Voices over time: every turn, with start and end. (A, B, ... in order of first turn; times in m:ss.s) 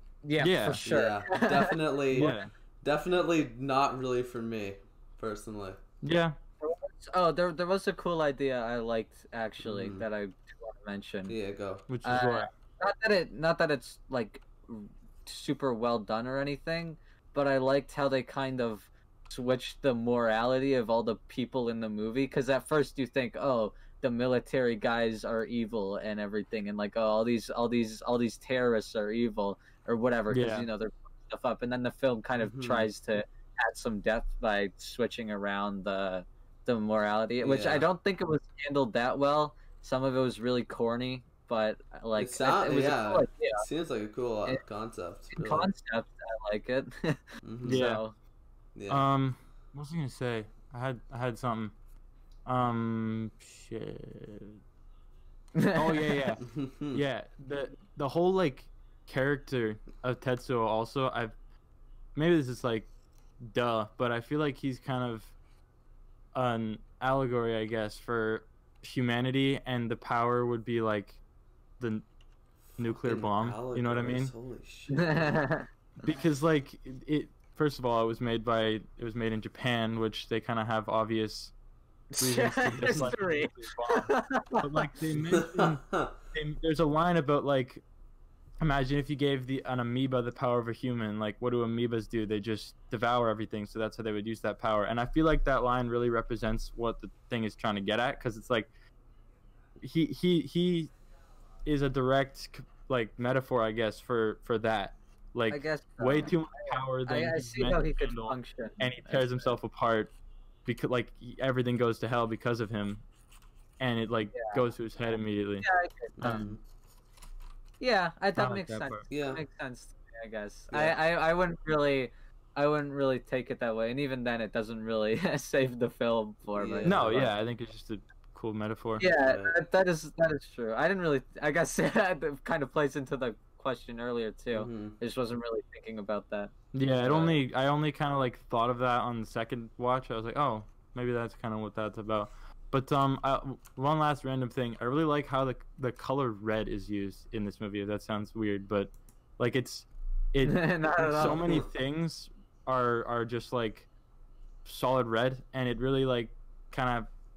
0:00.2-0:02.5 A
0:00.4-0:00.8 B
0:00.8-0:02.3 C
0:02.1-0:02.5 B
0:02.8-0:05.8 C
0:06.0-0:06.4 B
0:06.6-0:11.4 A
0:09.6-0:10.0 C
0:11.3-0:11.8 C
0:11.9-0:12.5 B
0:12.0-0:43.6 A
0:30.3-0:30.7 B
0:32.4-0:32.9 C
0:37.4-0:37.9 C
0:42.1-0:45.7 C
0:45.3-0:48.1 A
0:47.4-0:47.8 C
0:47.6-0:48.0 B
0:48.8-0:49.0 C
0:48.9-0:51.7 B
0:52.4-0:54.6 B
0:55.6-0:56.2 A
0:55.7-1:01.3 B
0:56.4-0:57.0 C
1:02.1-1:02.9 B
1:03.4-1:05.3 B
1:06.3-1:11.2 B
1:11.8-1:12.0 B
1:12.8-1:14.3 B
1:13.0-1:15.4 C
1:14.9-1:15.7 A
1:16.0-1:21.5 B
1:22.1-1:24.9 A
1:22.2-1:27.8 B
1:25.3-1:26.1 C
1:28.6-1:38.7 B
1:39.8-1:40.9 B
1:41.6-1:50.1 B
1:45.5-1:49.5 A
1:50.6-1:53.0 B
1:53.8-1:55.6 B
1:54.3-1:54.6 A
1:55.6-1:56.5 A
1:56.2-1:56.6 C
1:56.2-1:56.5 B
1:57.8-2:07.3 A
1:58.4-1:59.0 B
1:59.1-1:59.4 C
2:00.7-2:01.0 C
2:06.6-2:07.3 C
2:06.8-2:09.0 B
2:09.0-2:16.5 A
2:09.1-2:09.6 C
2:14.5-2:15.0 C
2:16.7-2:33.9 B
2:17.0-2:17.4 C
2:30.4-2:31.4 A
2:31.2-2:31.7 C
2:34.6-2:37.1 B